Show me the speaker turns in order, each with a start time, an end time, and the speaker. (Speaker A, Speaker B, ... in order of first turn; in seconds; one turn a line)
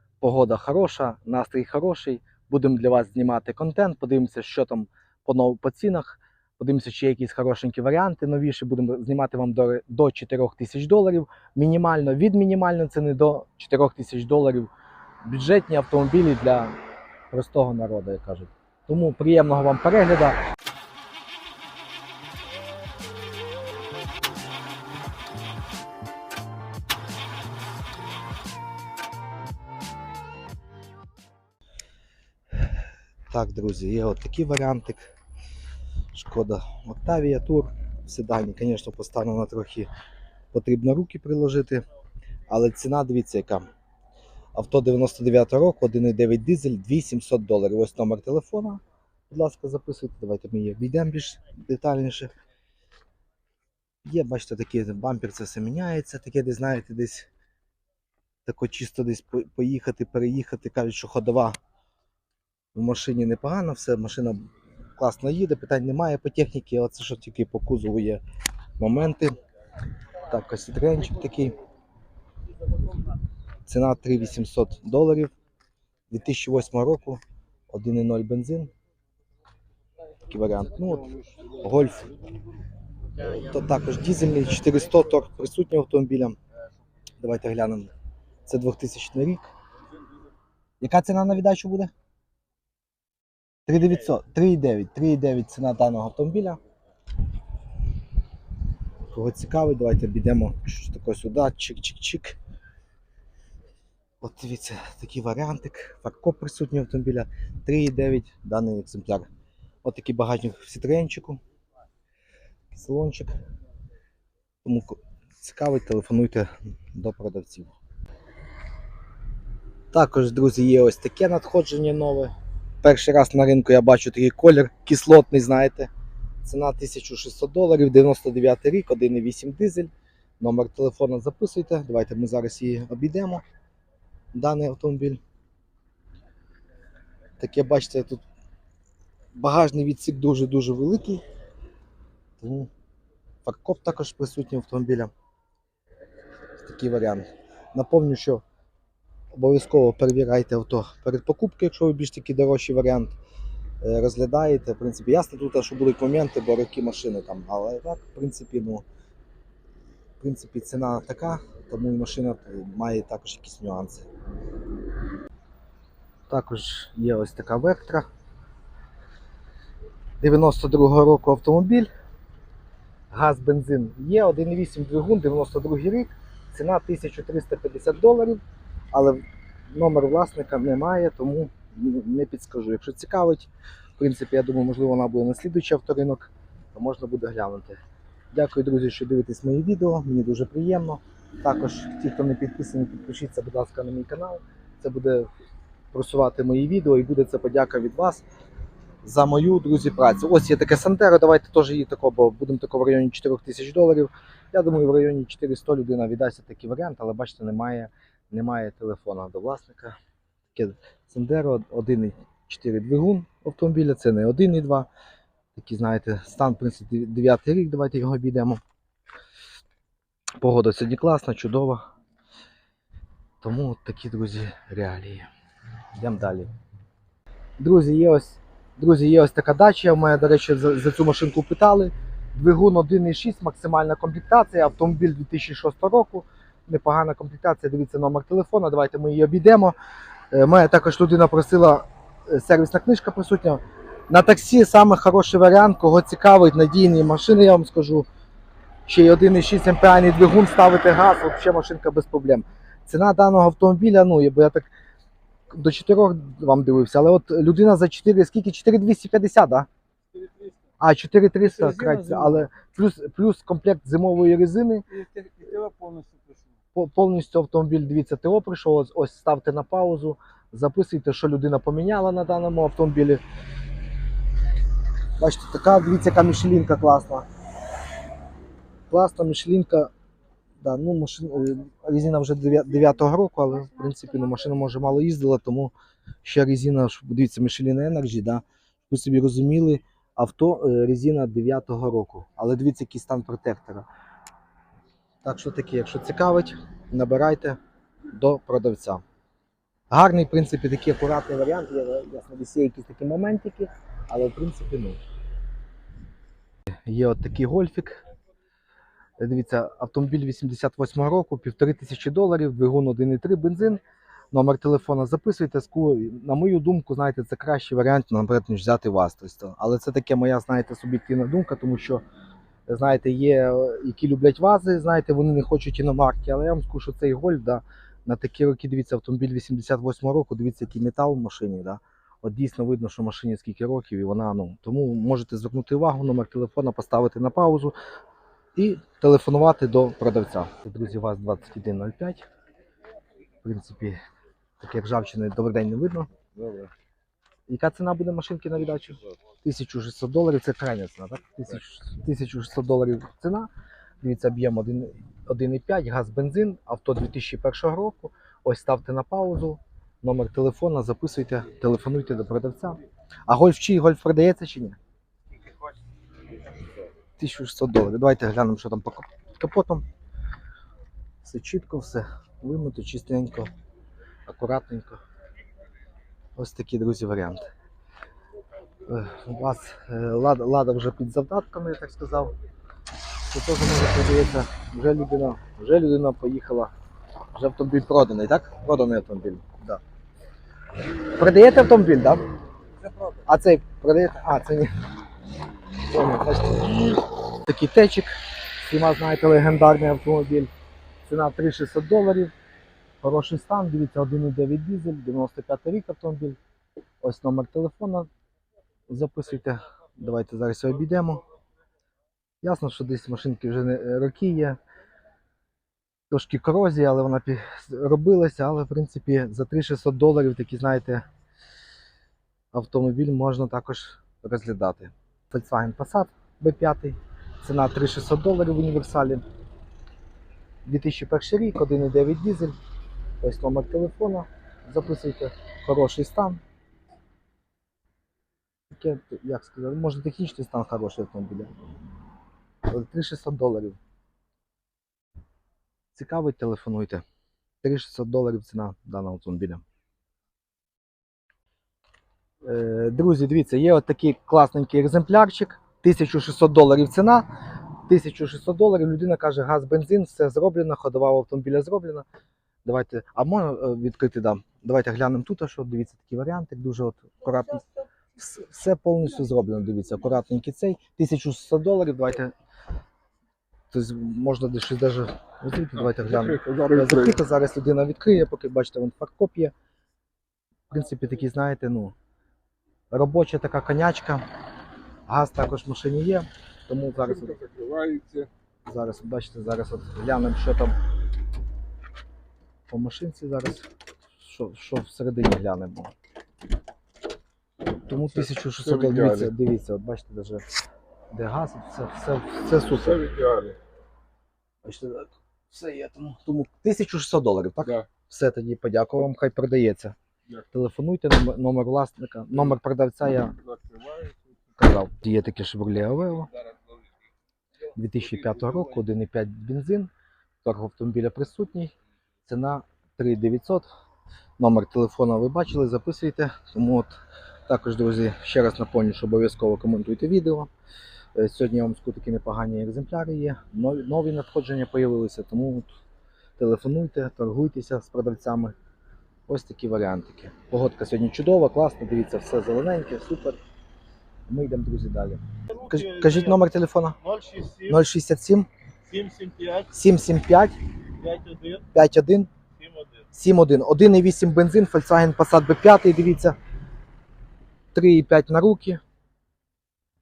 Speaker A: 0.2-14.7
Speaker A: 15.2-16.8
Speaker A: 17.3-20.4
Speaker A: 33.3-35.1
Speaker A: 36.1-39.9
Speaker A: 40.5-41.8
Speaker A: 42.5-43.6
Speaker A: 44.5-52.3
Speaker A: 54.0-57.3
Speaker A: 58.5-61.6
Speaker A: 62.8-64.4
Speaker A: 65.0-68.2
Speaker A: 68.8-69.3
Speaker A: 70.2-71.5
Speaker A: 73.7-75.3
Speaker A: 76.1-78.7
Speaker A: 80.3-82.2
Speaker A: 83.2-86.4
Speaker A: 87.2-87.9
Speaker A: 88.5-89.5
Speaker A: 90.8-91.9
Speaker A: 93.7-96.6
Speaker A: 99.1-102.4
Speaker A: 104.2-109.3
Speaker A: 109.8-111.4
Speaker A: 112.7-113.3
Speaker A: 114.6-117.7
Speaker A: 119.9-125.9
Speaker A: 126.4-133.4
Speaker A: 134.3-135.2
Speaker A: 137.4-138.2
Speaker A: 139.4-141.2
Speaker A: 142.4-142.7
Speaker A: 143.4-145.1
Speaker A: 146.6-148.4
Speaker A: 149.3-153.2
Speaker A: 153.8-158.8
Speaker A: 160.2-164.1
Speaker A: 166.3-168.1
Speaker A: 170.2-171.9
Speaker A: 173.1-178.4
Speaker A: 178.9-187.8
Speaker A: 188.3-195.3
Speaker A: 195.9-198.2
Speaker A: 199.0-210.0
Speaker A: 210.5-214.9
Speaker A: 215.6-218.6
Speaker A: 220.4-221.8
Speaker A: 223.4-225.3
Speaker A: 226.0-226.5
Speaker A: 227.6-239.8
Speaker A: 240.3-248.1
Speaker A: 248.9-254.7
Speaker A: 255.5-259.7
Speaker A: 260.8-264.9
Speaker B: 261.5-262.3
Speaker B: 264.9-266.4
Speaker A: 266.7-273.2
Speaker A: 275.2-277.3
Speaker A: 278.9-279.9
Speaker A: 280.6-293.9
Speaker A: 295.2-297.6
Speaker A: 298.1-299.0
Speaker A: 299.9-305.0
Speaker A: 306.9-308.0
Speaker A: 309.2-322.0
Speaker A: 322.7-337.8
Speaker A: 338.6-342.2
Speaker A: 343.4-344.0
Speaker A: 344.6-346.1
Speaker B: 346.4-346.7
Speaker A: 347.5-353.5
Speaker A: 354.0-364.8
Speaker A: 367.2-369.9
Speaker A: 371.2-373.5
Speaker A: 374.3-375.0
Speaker A: 376.4-377.5
Speaker A: 378.9-382.3
Speaker A: 383.2-386.7
Speaker A: 387.3-389.8
Speaker A: 391.1-392.2
Speaker B: 392.9-393.2
Speaker A: 393.2-394.7
Speaker A: 395.8-400.5
Speaker A: 401.0-402.3
Speaker A: 403.0-406.4
Speaker A: 407.0-408.1
Speaker A: 408.9-411.2
Speaker A: 412.4-414.6
Speaker A: 416.1-421.0
Speaker A: 422.5-429.2
Speaker A: 430.7-432.6
Speaker A: 433.2-436.4
Speaker A: 438.7-441.5
Speaker A: 442.7-443.8
Speaker A: 445.9-447.0
Speaker A: 447.6-449.6
Speaker A: 452.4-457.3
Speaker A: 457.9-462.1
Speaker A: 462.6-472.3
Speaker A: 473.7-479.5
Speaker B: 475.9-477.2
Speaker A: 480.7-481.9
Speaker A: 482.9-484.2
Speaker A: 485.1-487.4
Speaker B: 487.1-488.3
Speaker A: 488.7-490.8
Speaker A: 492.7-493.7
Speaker A: 494.2-495.9
Speaker A: 497.9-500.4
Speaker B: 498.2-499.3
Speaker A: 501.1-503.1
Speaker B: 502.9-503.6
Speaker A: 504.6-509.9
Speaker A: 510.5-513.4
Speaker B: 513.5-514.2
Speaker A: 514.6-516.3
Speaker A: 517.8-519.9
Speaker A: 520.4-521.7
Speaker A: 522.3-523.7
Speaker A: 524.4-526.9
Speaker A: 527.5-530.5
Speaker A: 531.2-535.8
Speaker A: 536.4-538.5
Speaker A: 539.3-543.4
Speaker A: 544.3-547.0
Speaker B: 546.0-546.4
Speaker B: 547.1-547.6
Speaker A: 547.6-548.5
Speaker B: 548.9-549.7
Speaker A: 549.7-550.6
Speaker B: 551.0-551.6
Speaker A: 551.7-552.3
Speaker A: 553.1-556.4
Speaker A: 557.7-558.8